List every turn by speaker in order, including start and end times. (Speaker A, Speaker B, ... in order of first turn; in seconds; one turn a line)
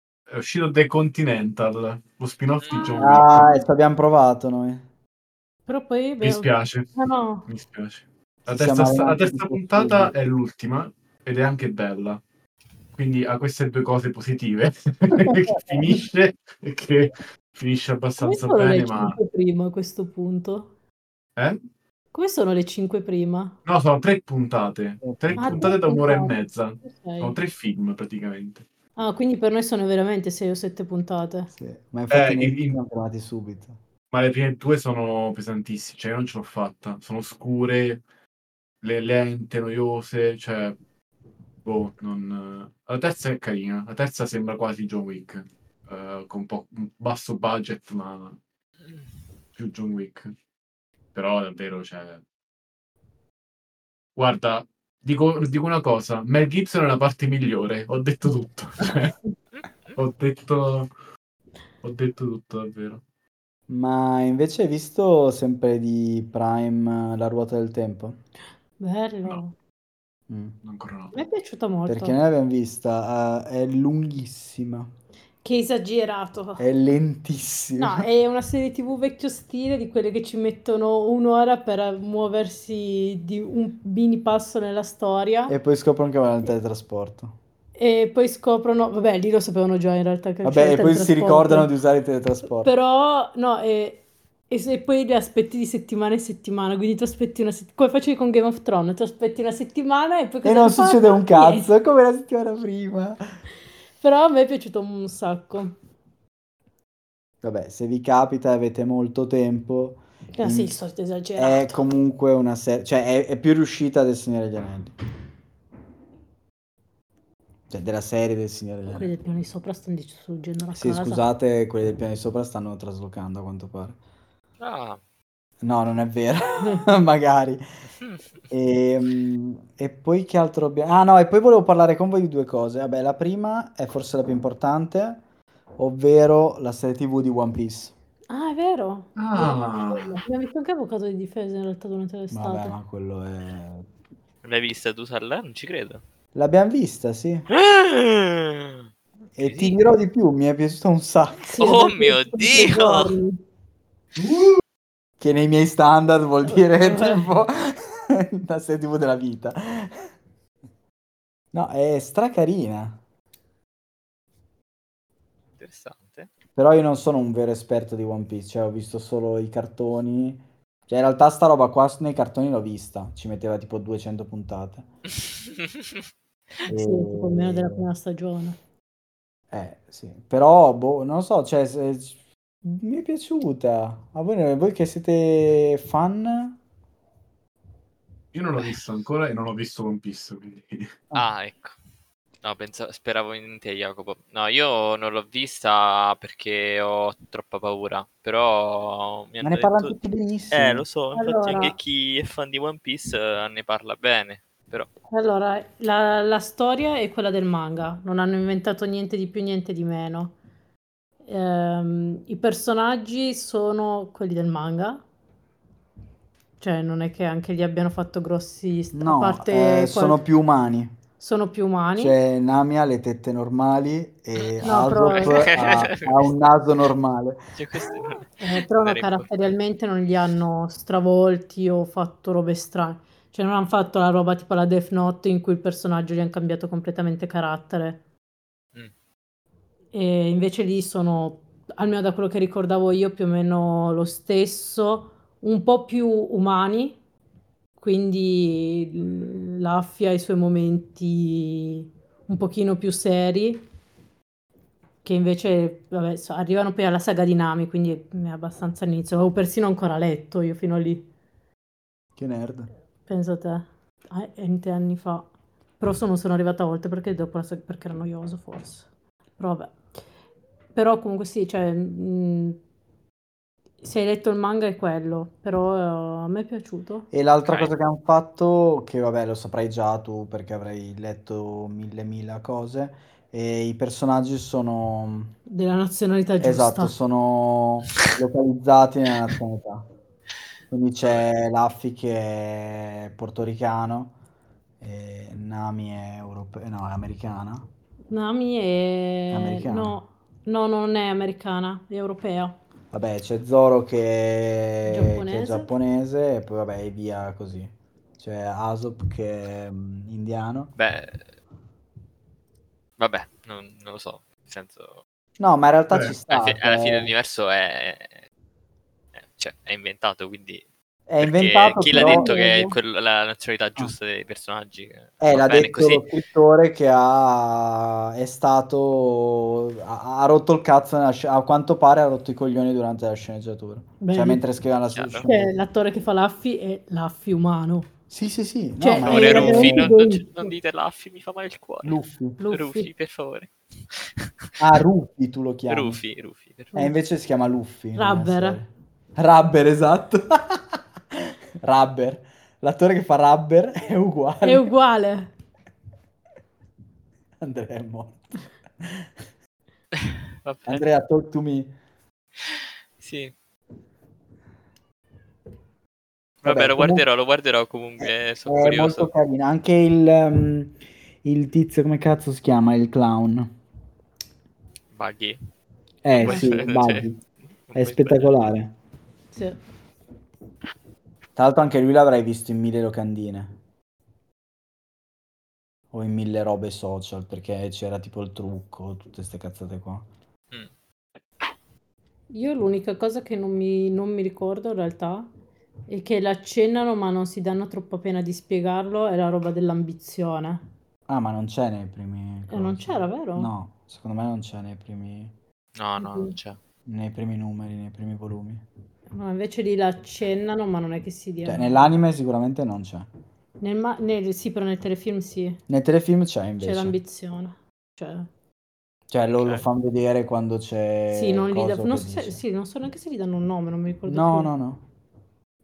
Speaker A: 0.3-3.6
Speaker B: 2.6-2.9
Speaker C: 2.9-4.8
Speaker D: 5.7-7.5
Speaker A: 6.2-6.9
Speaker A: 7.5-12.2
Speaker C: 8.4-10.1
Speaker A: 12.9-19.2
Speaker D: 18.2-20.7
Speaker D: 22.1-23.6
Speaker A: 23.6-28.6
Speaker C: 25.0-25.7
Speaker D: 25.4-27.4
Speaker D: 28.9-31.5
Speaker C: 31.6-33.8
Speaker A: 32.1-32.8
Speaker A: 34.1-38.0
Speaker A: 38.8-40.8
Speaker A: 41.6-48.4
Speaker A: 49.5-50.3
Speaker A: 51.1-52.2
Speaker A: 54.1-59.2
Speaker A: 59.9-60.9
Speaker A: 61.8-63.0
Speaker C: 63.7-68.2
Speaker D: 68.8-69.5
Speaker C: 70.3-70.5
Speaker A: 70.6-71.1
Speaker D: 71.1-72.2
Speaker C: 71.9-74.9
Speaker D: 75.4-76.7
Speaker C: 76.6-78.1
Speaker D: 77.8-85.5
Speaker C: 85.5-87.3
Speaker D: 87.8-91.7
Speaker C: 90.4-92.7
Speaker D: 92.6-101.7
Speaker C: 100.4-103.4
Speaker D: 104.0-105.8
Speaker C: 107.4-110.8
Speaker D: 110.3-111.8
Speaker C: 111.4-114.9
Speaker C: 117.7-119.1
Speaker D: 118.9-121.2
Speaker C: 120.8-124.0
Speaker B: 124.6-125.0
Speaker C: 125.6-127.6
Speaker D: 126.6-126.8
Speaker C: 128.5-135.2
Speaker C: 135.8-137.9
Speaker D: 138.3-142.8
Speaker A: 139.2-140.1
Speaker C: 142.3-143.8
Speaker B: 144.4-146.0
Speaker C: 146.3-147.5
Speaker B: 147.5-148.8
Speaker C: 149.3-151.7
Speaker B: 149.4-149.8
Speaker D: 151.5-153.4
Speaker B: 151.6-153.1
Speaker A: 154.2-154.6
Speaker C: 155.2-160.1
Speaker D: 156.5-157.2
Speaker C: 161.5-163.0
Speaker B: 165.6-166.3
Speaker C: 166.5-174.8
Speaker B: 175.3-176.0
Speaker D: 176.7-178.6
Speaker C: 176.7-177.9
Speaker C: 179.5-186.6
Speaker A: 188.3-190.9
Speaker B: 191.1-191.8
Speaker B: 192.4-200.0
Speaker C: 199.4-200.9
Speaker B: 200.5-204.9
Speaker D: 201.1-201.8
Speaker D: 205.1-210.3
Speaker D: 211.2-215.0
Speaker D: 216.6-220.2
Speaker C: 218.9-221.0
Speaker D: 221.2-222.2
Speaker C: 222.0-227.5
Speaker B: 224.4-226.3
Speaker D: 224.6-225.6
Speaker B: 227.5-229.3
Speaker D: 228.4-238.0
Speaker D: 239.9-247.0
Speaker D: 247.8-253.6
Speaker D: 255.0-261.1
Speaker C: 262.2-262.7
Speaker D: 263.1-268.9
Speaker D: 269.4-269.7
Speaker D: 270.8-272.6
Speaker D: 273.8-277.1
Speaker C: 277.1-285.3
Speaker B: 277.5-277.7
Speaker D: 285.5-286.9
Speaker C: 286.4-289.9
Speaker C: 290.7-294.1
Speaker C: 294.8-297.7
Speaker D: 298.1-302.6
Speaker C: 299.3-300.0
Speaker C: 302.9-310.8
Speaker D: 304.8-305.7
Speaker B: 310.8-311.3
Speaker B: 313.0-315.0
Speaker C: 315.4-317.1
Speaker A: 315.9-316.1
Speaker B: 316.3-318.2
Speaker B: 319.1-320.6
Speaker C: 321.1-322.7
Speaker B: 321.2-326.1
Speaker D: 321.9-322.8
Speaker C: 325.2-335.5
Speaker D: 334.0-334.4
Speaker B: 334.9-335.3
Speaker D: 335.2-337.9
Speaker C: 338.1-339.9
Speaker D: 338.8-340.5
Speaker B: 339.0-344.5
Speaker C: 341.8-342.4
Speaker D: 342.4-342.9
Speaker C: 344.6-346.0
Speaker B: 345.7-346.7
Speaker C: 346.7-354.7
Speaker D: 348.0-348.6
Speaker D: 354.4-355.3
Speaker C: 357.4-359.1
Speaker B: 360.0-360.8
Speaker C: 360.6-361.7
Speaker B: 362.4-363.3
Speaker C: 366.4-367.0
Speaker B: 366.4-369.1
Speaker C: 368.5-373.5
Speaker B: 374.9-375.4
Speaker C: 376.0-377.2
Speaker B: 376.2-377.1
Speaker D: 376.2-376.5
Speaker B: 377.7-378.5
Speaker C: 377.7-378.7
Speaker D: 379.3-379.6
Speaker C: 381.4-383.5
Speaker C: 385.9-390.1
Speaker D: 392.3-395.3
Speaker D: 395.9-400.6
Speaker C: 401.1-405.3
Speaker D: 402.5-403.5
Speaker B: 405.8-406.6
Speaker D: 406.0-406.3
Speaker C: 406.9-408.6
Speaker D: 409.1-411.9
Speaker C: 411.4-413.1
Speaker D: 413.6-415.6
Speaker C: 415.7-417.0
Speaker D: 416.6-418.3
Speaker C: 419.1-422.4
Speaker D: 421.1-424.5
Speaker C: 424.1-424.8